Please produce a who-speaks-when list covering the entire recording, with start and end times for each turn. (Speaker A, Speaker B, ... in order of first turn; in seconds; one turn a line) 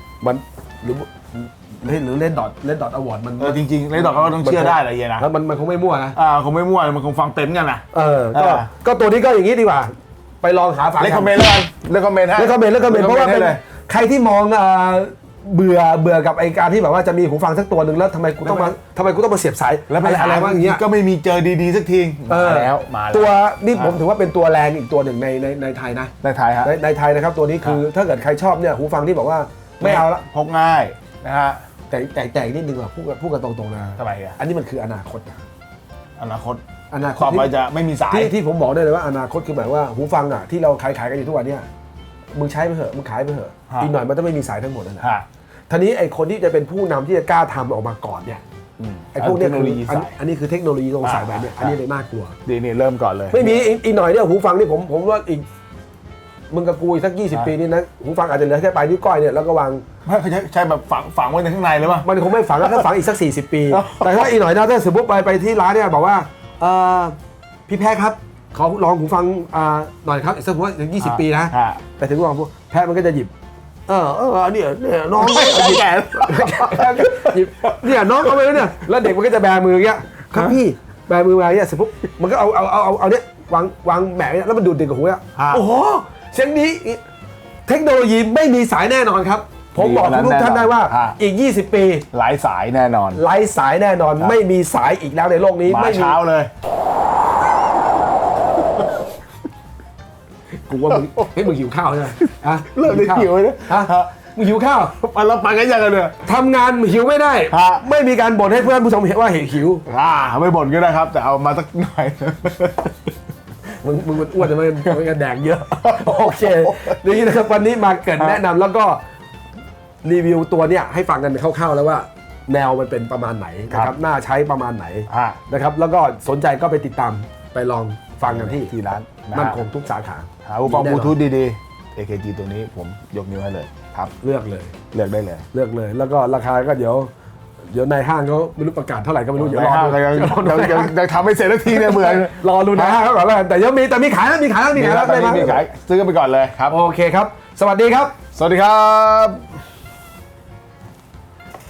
Speaker A: 0.2-6.2
Speaker B: 3.4-5.3
Speaker B: 6.2-8.7
Speaker A: 7.9-11.4
Speaker B: 11.0-13.6
Speaker A: 12.4-20.8
Speaker B: 18.4-18.7
Speaker B: 19.9-24.0
Speaker A: 22.3-30.2
Speaker B: 26.2-26.7
Speaker B: 29.8-31.6
Speaker A: 31.9-35.4
Speaker B: 34.0-34.4
Speaker B: 36.2-36.6
Speaker A: 36.9-37.5
Speaker B: 37.1-38.3
Speaker A: 38.1-41.7
Speaker A: 42.3-45.1
Speaker B: 45.0-45.3
Speaker A: 45.7-48.4
Speaker B: 48.8-50.1
Speaker A: 49.1-52.4
Speaker B: 51.0-51.8
Speaker B: 52.5-53.7
Speaker A: 53.3-55.5
Speaker A: 56.5-59.8
Speaker B: 60.0-62.9
Speaker A: 62.0-67.2
Speaker B: 63.7-64.3
Speaker A: 67.7-73.3
Speaker B: 71.0-71.8
Speaker A: 73.9-87.0
Speaker B: 75.2-78.8
Speaker B: 85.4-85.7
Speaker A: 87.7-92.1
Speaker B: 89.8-91.2
Speaker B: 92.1-93.2
Speaker A: 93.1-96.2
Speaker B: 95.7-96.5
Speaker B: 98.6-99.0
Speaker A: 100.7-104.9
Speaker B: 100.9-101.3
Speaker B: 102.2-104.2
Speaker B: 104.9-106.2
Speaker A: 106.2-109.8
Speaker B: 107.5-107.8
Speaker B: 109.9-113.1
Speaker A: 113.8-119.0
Speaker B: 115.8-117.2
Speaker A: 120.0-128.7
Speaker B: 123.7-124.0
Speaker B: 125.1-125.4
Speaker B: 128.2-129.6
Speaker A: 129.3-131.2
Speaker B: 130.4-134.1
Speaker A: 134.2-134.8
Speaker B: 134.9-135.5
Speaker A: 135.5-137.1
Speaker A: 137.7-140.9
Speaker B: 139.4-143.0
Speaker A: 141.7-145.6
Speaker B: 144.7-146.8
Speaker A: 146.7-148.2
Speaker B: 148.3-149.4